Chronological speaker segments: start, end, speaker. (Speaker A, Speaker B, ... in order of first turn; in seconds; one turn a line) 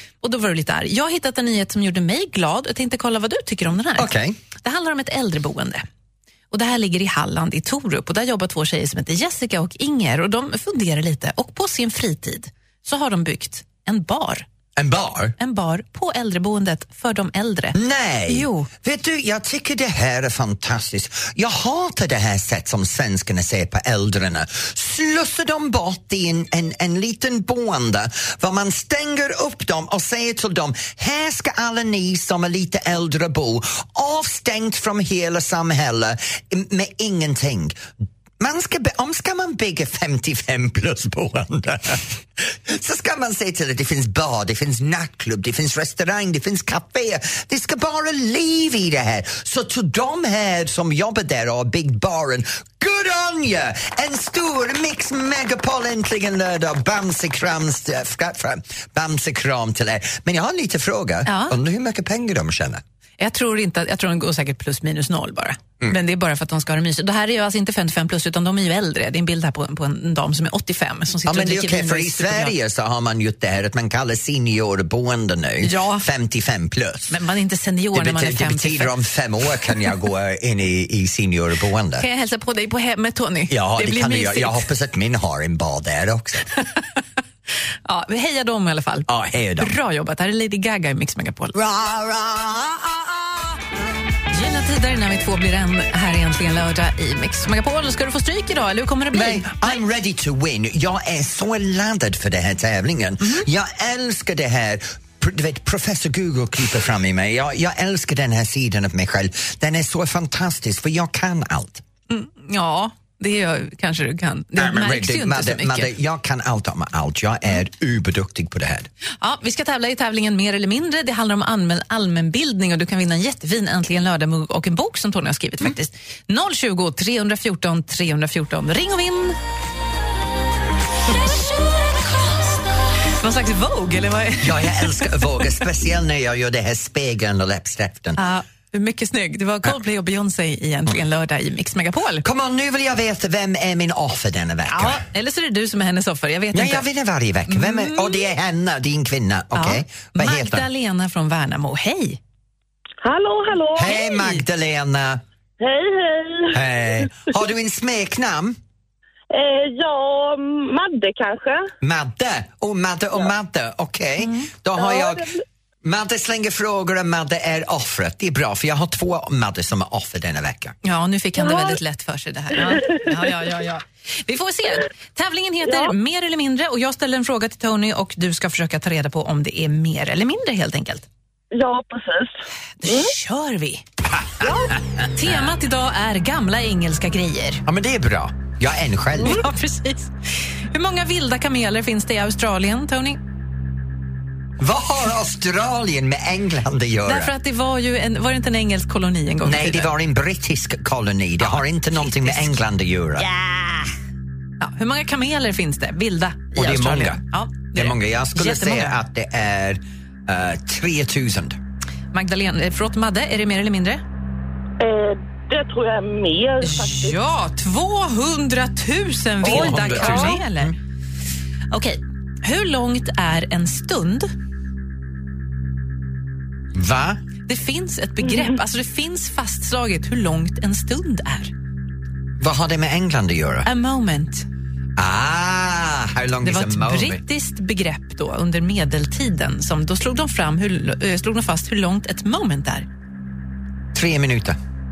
Speaker A: 0.2-4.1
Speaker B: 4.0-4.4
Speaker A: 4.6-5.8
Speaker A: 6.5-14.5
Speaker B: 14.8-15.3
Speaker A: 15.4-18.7
Speaker B: 17.7-37.8
Speaker B: 38.4-62.8
Speaker A: 61.2-61.6
Speaker A: 63.2-72.5
Speaker B: 71.2-77.2
Speaker A: 75.6-76.0
Speaker A: 77.1-78.9
Speaker B: 77.9-82.0
Speaker A: 82.0-84.6
Speaker B: 83.5-86.5
Speaker A: 87.8-89.1
Speaker B: 89.1-89.7
Speaker A: 89.6-91.5
Speaker B: 91.5-93.6
Speaker A: 94.3-99.8
Speaker B: 99.1-111.8
Speaker A: 112.1-115.9
Speaker B: 114.5-118.9
Speaker A: 119.2-129.4
Speaker A: 131.0-132.5
Speaker A: 133.1-135.3
Speaker B: 134.4-138.2
Speaker A: 138.2-142.2
Speaker B: 142.2-145.0
Speaker A: 144.7-146.9
Speaker B: 146.5-150.7
Speaker A: 147.5-148.2
Speaker A: 149.5-152.2
Speaker C: 153.0-154.0
Speaker B: 153.7-155.2
Speaker A: 153.9-154.3
Speaker C: 155.6-156.6
Speaker B: 156.5-158.6
Speaker C: 159.3-161.7
Speaker B: 161.8-170.8
Speaker A: 164.2-164.5
Speaker C: 164.8-165.4
Speaker A: 170.8-181.1
Speaker C: 171.5-171.8
Speaker C: 181.5-183.1
Speaker A: 182.8-183.8
Speaker C: 184.4-184.7
Speaker A: 185.1-187.6
Speaker B: 187.7-189.4
Speaker A: 189.2-193.2
Speaker B: 194.6-197.3
Speaker A: 197.1-199.9
Speaker B: 199.4-203.3
Speaker A: 201.4-202.6
Speaker A: 203.3-203.9
Speaker A: 204.6-209.0
Speaker B: 206.5-207.2
Speaker B: 207.7-211.6
Speaker A: 212.1-214.0
Speaker C: 214.8-217.2
Speaker A: 216.6-220.7
Speaker B: 219.4-220.7
Speaker C: 219.4-220.3
Speaker A: 221.7-224.3
Speaker B: 226.7-227.2
Speaker A: 227.5-231.5
Speaker B: 232.4-233.7
Speaker A: 233.6-234.5
Speaker B: 235.0-237.2
Speaker A: 236.4-242.9
Speaker B: 243.9-244.6